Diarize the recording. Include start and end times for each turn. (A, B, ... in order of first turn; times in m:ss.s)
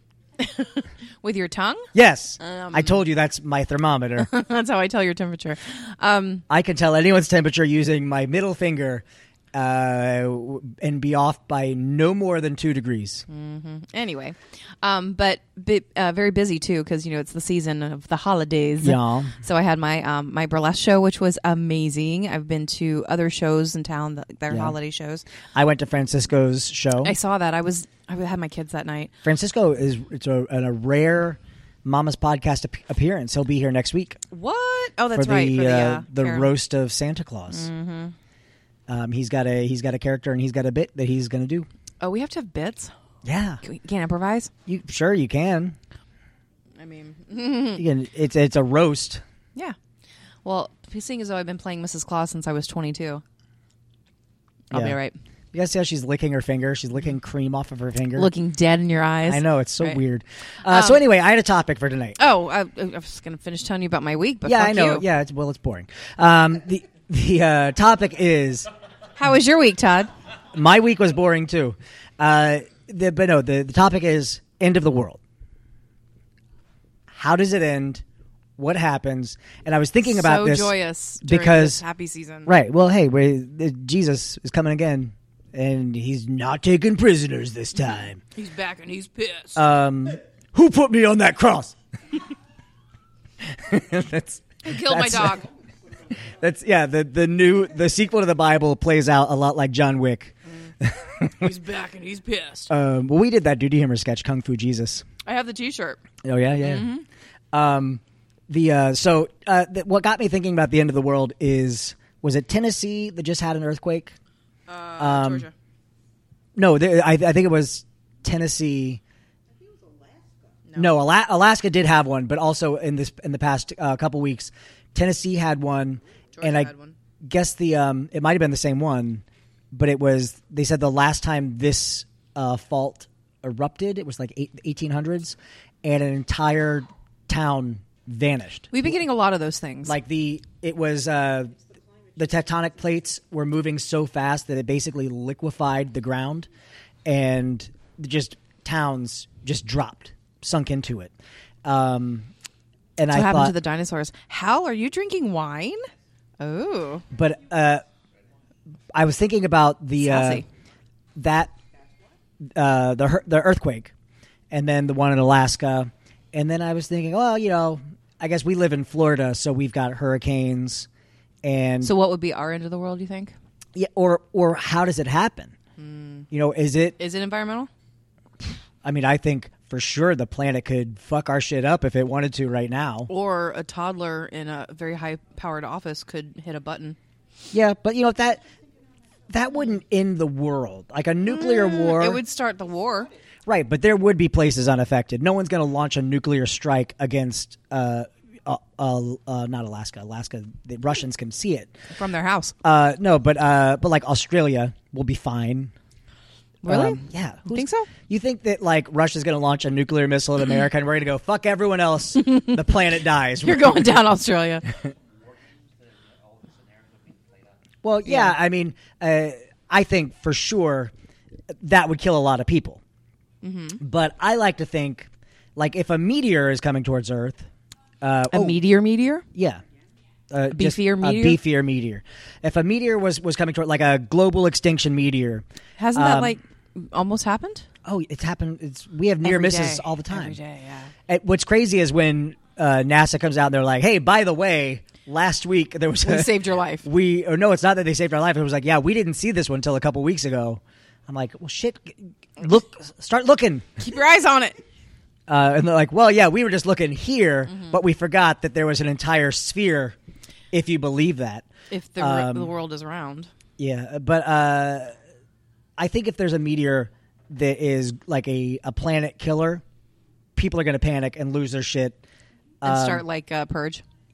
0:00.4-0:03.0 A
0:01.9-0:04.3 B
0:04.2-0:06.4 A
0:06.5-0:13.3 B
0:13.3-0:25.2 A
0:18.8-0:19.3 B
0:24.5-0:24.8 B
0:25.5-0:27.2 B
0:27.0-0:29.1 A
0:29.2-0:34.2 B
0:34.3-0:36.5 A
0:35.1-0:37.7 B
0:37.5-0:38.1 A
0:38.9-0:41.7 B
0:42.0-0:42.9 A
0:43.2-0:43.6 B
0:43.6-0:44.5 A
0:44.7-0:45.8 B
0:46.8-0:47.8 A
0:47.8-0:49.2 B
0:50.4-0:53.2 A
0:54.7-0:55.2 A
0:54.7-0:55.0 B
0:55.5-0:58.3 B
0:58.2-1:00.0 A
0:59.3-1:02.2 B
1:00.6-1:01.0 A
1:02.2-1:05.0 A
1:04.4-1:08.7 B
1:09.2-1:10.1 A
1:10.5-1:15.2 B
1:17.1-1:18.0 B
1:18.6-1:21.8 B
1:20.0-1:22.5 A
1:22.5-1:28.2 B
1:28.4-1:29.6 A
1:29.6-1:31.8 B
1:33.4-1:35.4 B
1:34.6-1:35.4 A
1:36.4-1:41.5 B
1:41.4-1:42.7 A
1:42.7-1:45.0 B
1:45.3-1:46.0 A
1:46.2-1:46.9 B
1:46.6-1:47.0 A
1:47.5-1:54.2 B
1:54.7-1:55.5 A
1:55.0-1:55.5 B
1:56.6-1:59.0 B
2:00.8-2:06.7 B
2:06.4-2:07.0 A
2:07.2-2:18.7 B
2:18.7-2:20.0 A
2:19.9-2:21.6 B
2:22.2-2:26.5 B
2:27.0-2:31.1 B
2:31.6-2:32.3 B
2:33.0-2:33.6 B
2:33.1-2:35.8 A
2:36.4-2:37.0 A
2:37.1-2:37.8 B
2:38.9-2:40.4 B
2:40.0-2:40.5 A
2:41.2-2:41.5 B
2:42.6-2:43.9 B
2:44.5-2:50.9 B
2:51.4-2:51.9 B
2:51.8-2:53.3 A
2:53.8-2:55.5 B
2:55.8-2:56.3 A
2:56.3-2:57.0 B
2:57.0-2:57.7 A
2:58.8-3:03.1 B
3:03.1-3:07.0 A
3:07.5-3:08.4 B
3:09.3-3:12.2 B
3:11.3-3:13.1 A
3:13.5-3:21.7 B
3:22.0-3:22.5 A
3:22.6-3:25.7 B
3:26.6-3:27.9 A
3:26.7-3:34.0 B
3:32.2-3:32.5 A
3:33.4-3:34.7 A
3:37.8-3:40.9 B
3:38.1-3:38.3 A
3:41.5-3:42.8 B
3:43.4-3:43.8 A
3:43.8-3:47.5 B
3:48.0-3:48.6 B
3:48.3-3:49.2 A
3:49.3-3:49.6 B
3:50.3-3:56.4 B
3:50.5-3:51.4 A
3:55.8-3:57.7 A
3:57.8-4:00.4 B
3:59.2-4:00.9 A
4:01.1-4:13.8 B
4:06.0-4:06.8 A
4:13.8-4:14.6 A
4:15.3-4:20.0 B
4:17.5-4:17.8 A
4:20.5-4:21.5 B
4:21.7-4:23.3 A
4:22.0-4:22.5 B
4:23.6-4:24.9 B
4:25.8-4:29.6 B
4:30.4-4:32.0 B
4:32.6-4:33.0 B
4:32.6-4:33.8 A